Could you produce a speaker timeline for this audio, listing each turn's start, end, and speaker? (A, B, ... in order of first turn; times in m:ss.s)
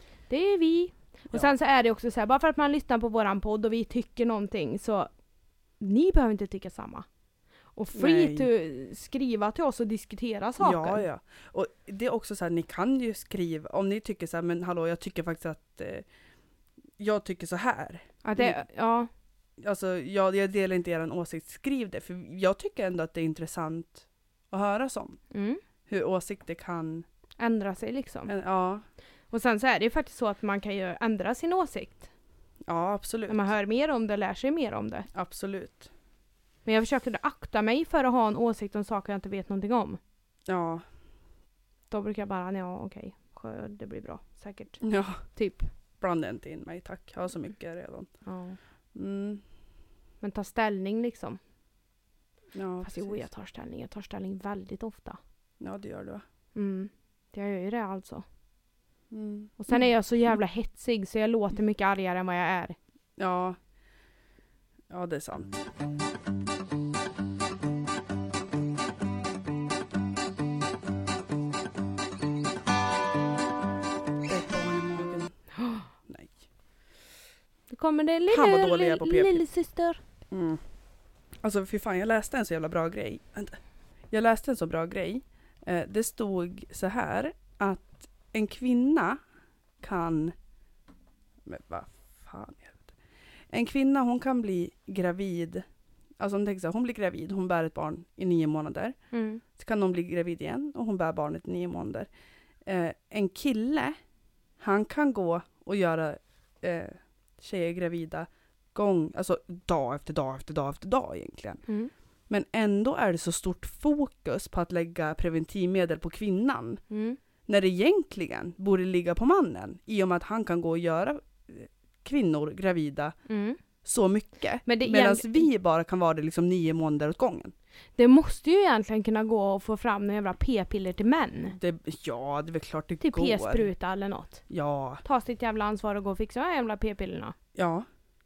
0:00.3-0:05.1 A
0:05.8-0:07.1 A
0:07.8-0:11.0 A
0:08.0-0:08.5 B
0:10.6-0:16.1 B
0:17.0-0:18.6 B
0:18.2-0:19.1 A
0:19.6-0:25.2 B
0:25.3-0:25.6 A
0:25.9-0:27.1 B
0:27.4-0:28.3 A
0:28.3-0:28.8 B
0:29.3-0:32.1 A
0:32.7-0:33.4 B
0:33.3-0:35.1 A
0:35.1-0:35.9 B
0:36.7-0:40.0 A
0:40.5-0:40.8 B
0:41.9-0:45.7 A
0:44.8-0:45.2 B
0:46.0-0:48.1 B
0:48.2-0:48.6 A
0:49.0-0:49.4 B
0:50.2-0:51.4 A
0:52.5-0:53.3 B
0:52.8-0:55.2 A
0:55.6-0:56.2 B
0:56.6-0:58.2 A
0:59.1-0:59.8 B
0:59.6-1:02.8 A
1:03.2-1:03.6 B
1:04.9-1:05.5 B
1:14.3-1:15.4 B
1:15.6-1:15.9 A
1:16.1-1:16.4 B
1:17.7-1:20.0 A
1:18.3-1:19.4 B
1:20.3-1:20.6 B
1:21.4-1:23.6 B
1:24.1-1:29.2 B
1:29.8-1:30.4 B
1:31.4-1:32.9 B
1:33.5-1:35.6 B
1:36.2-1:39.0 B
1:39.1-1:39.4 A
1:39.6-1:42.1 B
1:42.6-1:44.0 B
1:44.6-1:51.6 B
1:52.3-1:56.8 B
1:56.9-1:57.2 A
1:57.5-2:03.2 B
2:03.3-2:03.6 A
2:03.8-2:07.5 B
2:04.7-2:05.5 A
2:08.0-2:11.6 A
2:11.5-2:13.7 B
2:13.0-2:14.4 A
2:14.5-2:15.0 B
2:15.0-2:17.4 A
2:17.6-2:17.9 B